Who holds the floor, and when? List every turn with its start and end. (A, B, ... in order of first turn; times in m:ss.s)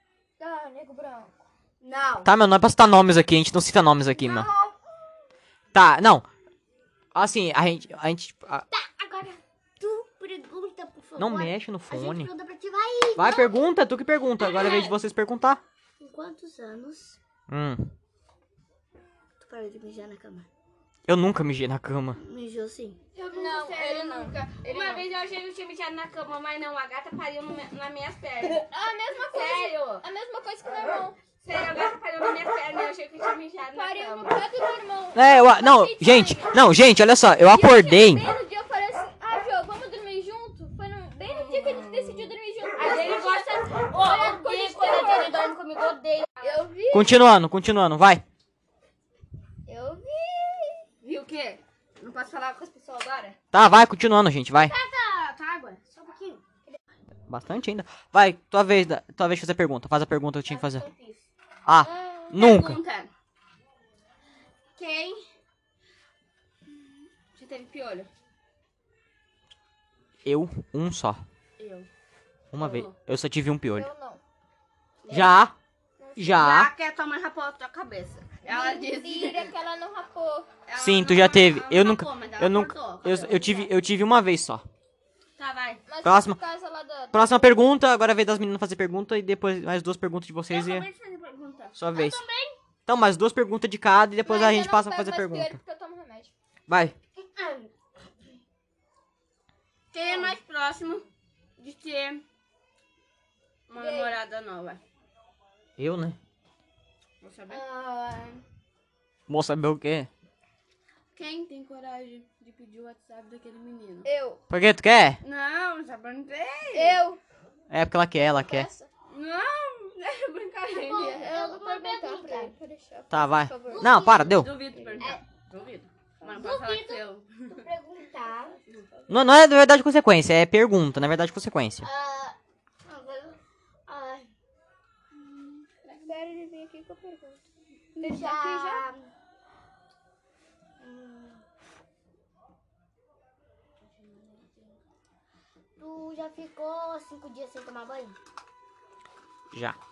0:00.4-0:01.4 A
0:01.8-0:02.3 B
0:02.2-0:04.5 C
0:04.2-0:04.8 B
0:05.7-0:06.3 C
0:07.1-0:08.6 C
0:08.7-0:13.7 B
0:11.2-0:12.3 C
0:13.2-0:15.6 C
0:14.4-0:15.0 B
0:16.0-0:17.2 B
0:17.5-0:17.9 C
0:19.4-0:20.5 B
0:21.1-0:22.2 C
0:22.2-0:23.0 B
0:23.2-0:28.7 D
0:23.2-0:25.0 A
0:28.6-0:31.2 A
0:29.3-0:30.0 D
0:31.4-0:34.3 D
0:33.7-0:36.6 A
0:35.1-0:38.3 C
0:37.4-0:45.4 A
0:41.3-0:46.6 D
0:46.4-0:47.2 A
0:46.9-0:48.2 C
0:49.7-0:50.8 A
0:51.0-0:53.4 D
0:53.5-0:54.7 C
0:54.6-0:56.4 B
0:57.3-1:00.9 C
1:00.5-1:01.2 B
1:01.6-1:02.8 C
1:01.9-1:03.1 D
1:04.8-1:05.3 D
1:07.3-1:08.1 D
1:10.2-1:11.2 C
1:11.6-1:11.9 D
1:12.5-1:13.9 C
1:12.6-1:12.9 D
1:13.7-1:14.2 A
1:15.0-1:15.3 D
1:15.1-1:15.5 C
1:16.0-1:16.6 A
1:16.2-1:16.7 C
1:16.4-1:19.5 D
1:18.4-1:20.5 A
1:20.7-1:23.7 D
1:20.8-1:24.6 C
1:25.4-1:25.8 D
1:25.9-1:27.6 A
1:26.0-1:26.4 C
1:27.1-1:30.9 C
1:30.5-1:31.8 D
1:31.8-1:32.2 C
1:31.9-1:32.6 B
1:32.9-1:35.6 C
1:34.2-1:36.3 A
1:36.7-1:36.9 C
1:37.2-1:37.7 B
1:39.9-1:41.0 D
1:40.0-1:40.4 B
1:41.6-1:42.2 D
1:43.7-1:44.8 D
1:43.7-1:44.2 A
1:45.8-1:46.2 C
1:47.2-1:47.6 D
1:47.5-1:48.4 B
1:49.3-1:50.1 C
1:51.1-1:54.1 D
1:54.0-1:54.4 A
1:54.5-1:55.2 C
1:55.2-1:57.0 D
1:56.7-1:57.2 A
1:57.7-1:58.7 C
1:58.4-1:58.9 A
1:59.1-2:01.3 D
2:00.7-2:02.5 B
2:01.0-2:03.9 A
2:03.1-2:04.5 C
2:03.7-2:05.2 B
2:04.2-2:07.6 D
2:06.2-2:08.6 B
2:09.1-2:11.9 C
2:11.8-2:14.3 B
2:15.2-2:16.0 D
2:16.0-2:17.4 A
2:18.0-2:19.1 B
2:18.0-2:18.8 A
2:20.8-2:21.4 B
2:23.8-2:24.8 D
2:25.8-2:28.2 B
2:29.5-2:29.8 C